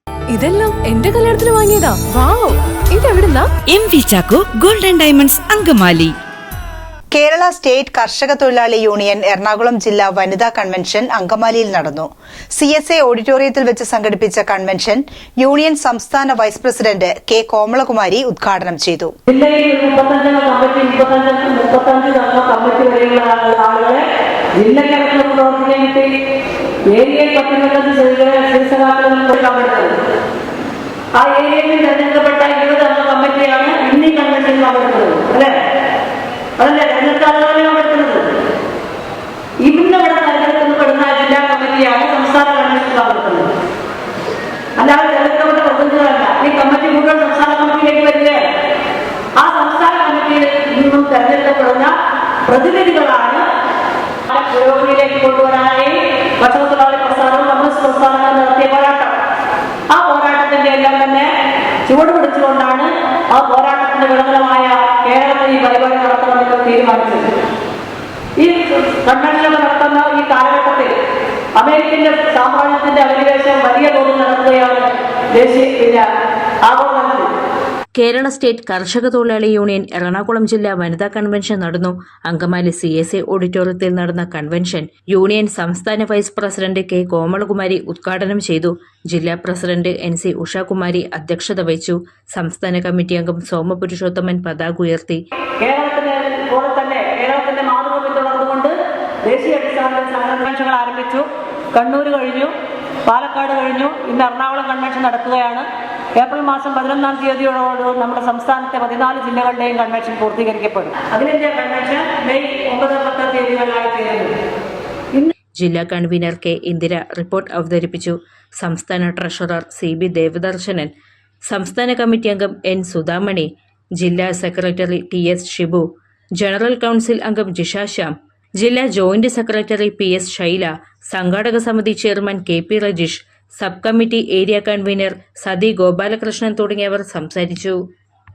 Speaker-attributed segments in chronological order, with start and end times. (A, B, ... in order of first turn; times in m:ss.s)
0:00.3-0:03.5 A
0:03.7-0:06.1 B
0:07.1-0:19.1 C
0:19.3-0:24.0 D
0:24.6-0:26.1 D
0:26.9-0:30.0 D
0:31.2-0:35.6 D
0:36.6-0:38.3 D
0:39.6-0:43.5 D
0:44.8-0:48.4 D
0:49.4-0:51.9 D
0:52.5-0:53.4 D
0:54.3-0:59.1 D
0:59.9-1:01.3 D
1:01.9-1:07.3 D
1:08.4-1:10.9 D
1:11.6-1:16.1 D
1:16.6-1:17.3 D
1:18.0-1:35.2 E
1:35.6-1:42.5 D
1:43.1-1:54.3 D
1:55.6-2:00.9 E
2:01.5-2:05.8 E
2:06.4-2:17.8 E